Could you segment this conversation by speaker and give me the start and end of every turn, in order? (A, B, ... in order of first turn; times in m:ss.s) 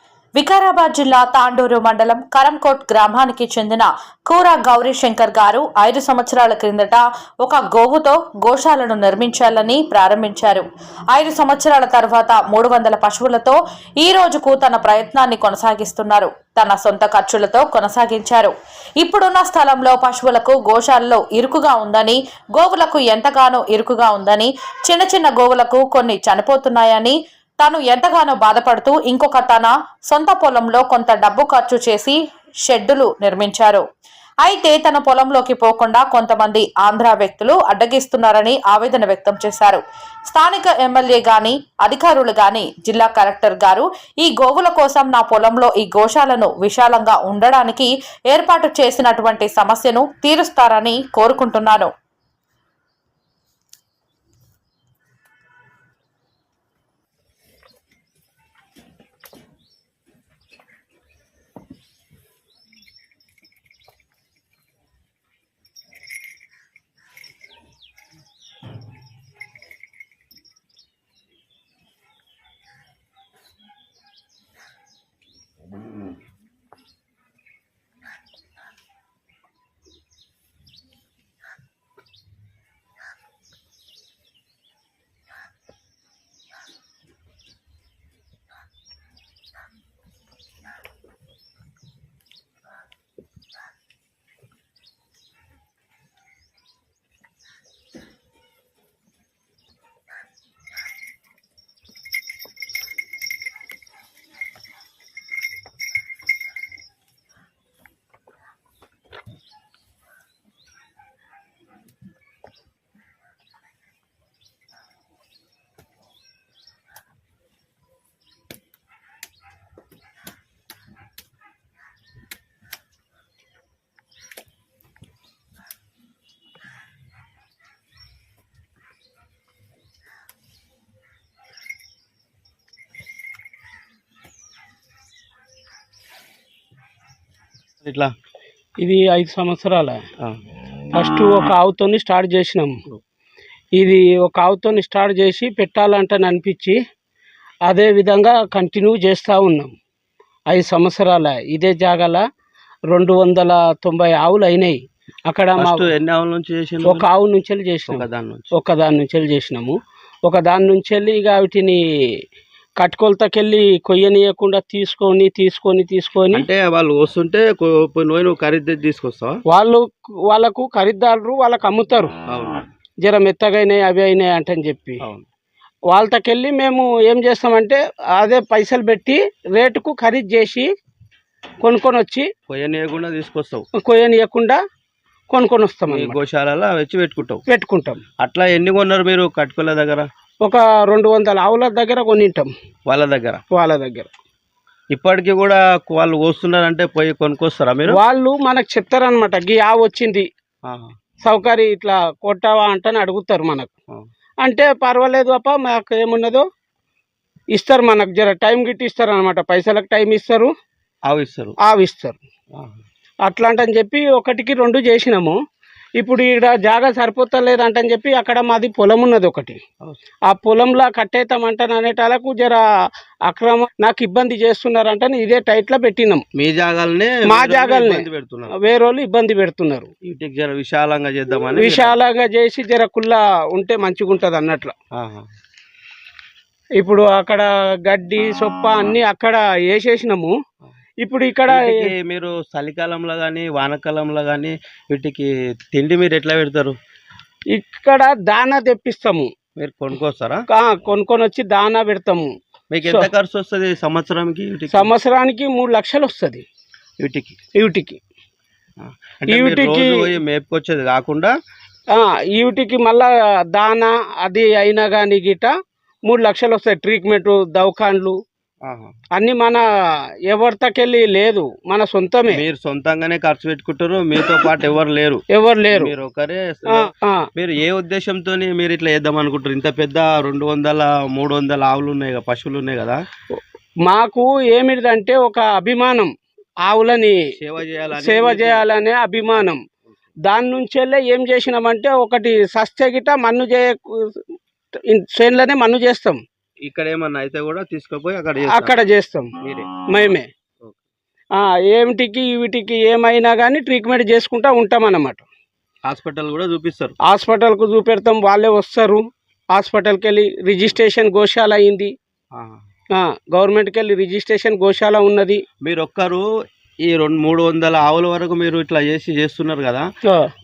0:00.4-0:33.8 A
0:34.4-0:51.9 A
2:17.8-2:18.1 B
2:18.8-2:20.0 C
2:20.9-2:22.8 C
2:23.8-2:26.8 C
2:27.7-2:29.7 C
2:30.5-2:32.2 C
2:32.9-2:35.9 C
2:35.6-2:37.0 B
2:36.8-2:41.8 C
2:37.9-2:38.5 B
2:42.8-2:46.5 C
2:46.3-2:49.4 B
2:49.5-2:52.1 C
2:52.3-2:52.6 B
2:53.0-2:55.0 C
2:55.9-3:00.7 C
3:01.6-3:02.3 C
3:02.5-3:03.7 B
3:03.8-3:04.6 C
3:05.3-3:06.2 C
3:05.9-3:07.4 B
3:07.5-3:08.0 C
3:08.2-3:10.1 B
3:10.4-3:12.5 C
3:12.9-3:13.4 B
3:13.5-3:14.1 C
3:14.9-3:18.0 B
3:17.9-3:20.3 C
3:20.7-3:20.9 B
3:21.2-3:23.7 C
3:24.4-3:26.4 C
3:27.5-3:30.5 C
3:31.1-3:31.6 B
3:31.6-3:32.2 C
3:33.3-3:35.4 C
3:36.0-3:39.6 C
3:40.3-3:42.6 C
3:43.3-3:46.2 C
3:46.4-3:48.5 B
3:47.3-3:49.9 C
3:50.0-3:52.0 B
3:51.6-3:54.7 C
3:55.0-3:55.3 B
3:56.8-4:00.3 C
4:01.0-4:01.9 C
4:01.5-4:06.8 B
4:07.5-4:09.3 C
4:09.6-4:10.4 B
4:10.5-4:12.3 C
4:12.7-4:14.9 B
4:14.7-4:16.4 C
4:17.0-4:17.4 B
4:17.6-4:18.0 C
4:18.8-4:21.3 B
4:19.3-4:20.1 C
4:21.9-4:25.5 C
4:26.1-4:28.2 C
4:28.6-4:28.9 B
4:29.2-4:29.6 C
4:30.3-4:32.4 C
4:32.3-4:43.0 B
4:35.3-4:35.9 C
4:36.7-4:37.3 C
4:43.9-4:46.1 C
4:46.6-4:47.2 C
4:47.4-4:48.7 B
4:48.0-4:49.6 C
4:50.3-4:54.2 C
4:54.9-4:56.2 C
4:56.6-4:58.8 B
4:58.5-4:59.3 C
4:59.4-4:59.8 B
4:59.9-5:00.3 C
5:01.4-5:05.2 C
5:05.9-5:07.0 B
5:07.1-5:09.0 C
5:09.5-5:11.9 C
5:12.3-5:12.6 B
5:12.9-5:15.4 C
5:15.6-5:16.3 B
5:16.8-5:19.9 B